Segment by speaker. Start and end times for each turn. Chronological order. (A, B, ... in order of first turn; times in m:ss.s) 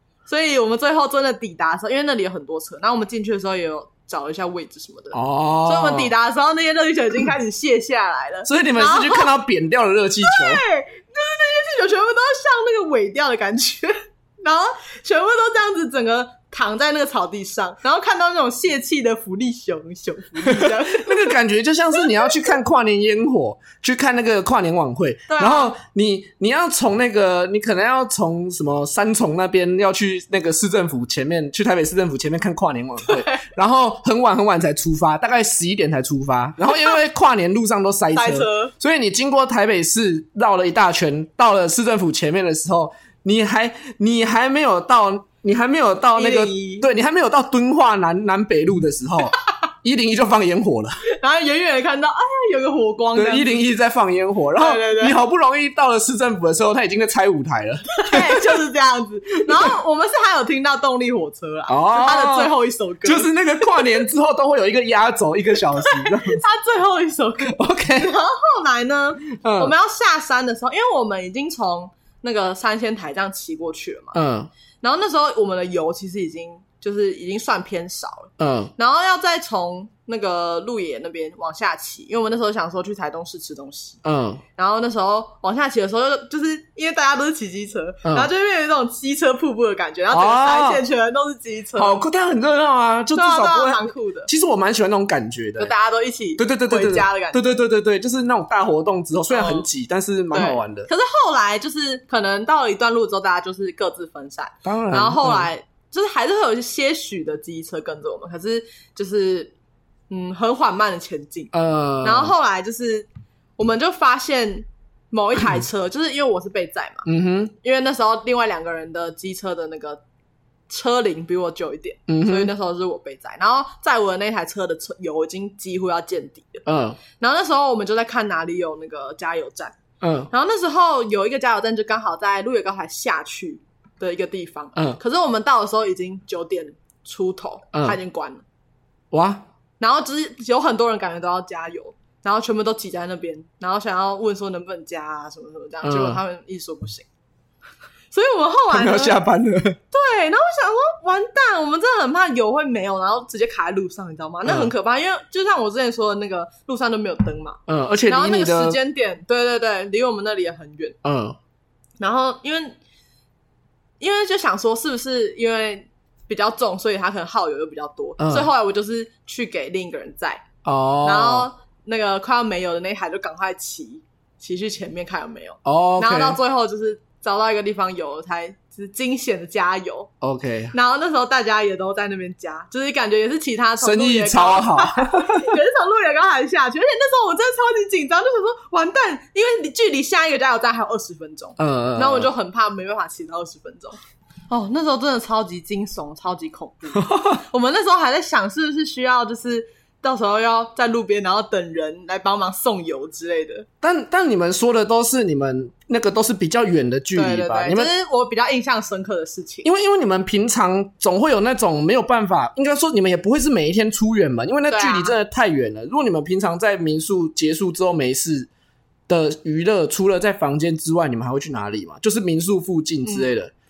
0:00.3-0:09.3 A
0:05.1-0:06.1 B
0:08.4-0:10.6 B
0:10.2-0:21.3 A
0:20.4-0:51.0 B
0:22.0-0:22.3 A
0:25.3-0:25.8 A
0:33.0-0:33.4 A
0:38.1-0:38.7 A
0:46.2-0:46.9 A
0:51.1-0:53.6 A
0:53.1-0:58.6 B
0:54.6-0:55.2 A
0:57.9-1:03.9 A
1:01.7-1:06.4 B
1:05.8-1:14.2 A
1:07.5-1:08.2 B
1:09.3-1:09.7 B
1:14.1-1:14.5 B
1:14.8-1:24.0 A
1:18.4-1:18.7 B
1:24.0-1:24.4 B
1:24.6-1:32.0 A
1:28.0-1:28.3 B
1:30.1-1:30.8 B
1:31.8-1:35.7 B
1:33.1-1:34.3 A
1:35.6-1:37.4 A
1:36.4-1:40.9 B
1:39.3-1:39.7 A
1:40.3-1:49.5 A
1:44.6-1:45.5 B
1:50.1-1:57.0 A
1:51.5-1:52.3 B
1:57.0-1:57.5 B
1:57.6-2:00.0 A
2:00.7-2:06.6 A
2:02.1-2:02.5 B
2:06.6-2:07.0 B
2:07.2-2:09.8 A
2:10.0-2:10.3 B
2:10.3-2:18.4 A
2:19.1-2:19.4 B
2:19.8-2:27.1 A
2:25.8-2:26.2 B
2:28.1-2:29.2 A
2:28.7-2:29.8 B
2:29.9-2:41.0 A
2:34.4-2:34.7 B
2:37.7-2:38.8 B
2:41.0-2:41.4 B
2:42.0-2:42.8 A
2:44.0-2:50.4 A
2:48.2-2:48.5 B
2:50.6-2:51.5 B
2:51.0-3:00.1 A
2:55.6-2:56.4 B
3:00.2-3:00.7 B
3:00.7-3:14.0 A
3:03.8-3:05.6 B
3:11.6-3:12.3 B
3:14.5-3:23.7 A
3:17.1-3:17.4 B
3:23.8-3:27.9 B
3:27.1-3:29.7 A
3:29.6-3:38.5 B
3:34.7-3:35.2 A
3:39.1-3:43.5 B
3:43.0-3:43.3 A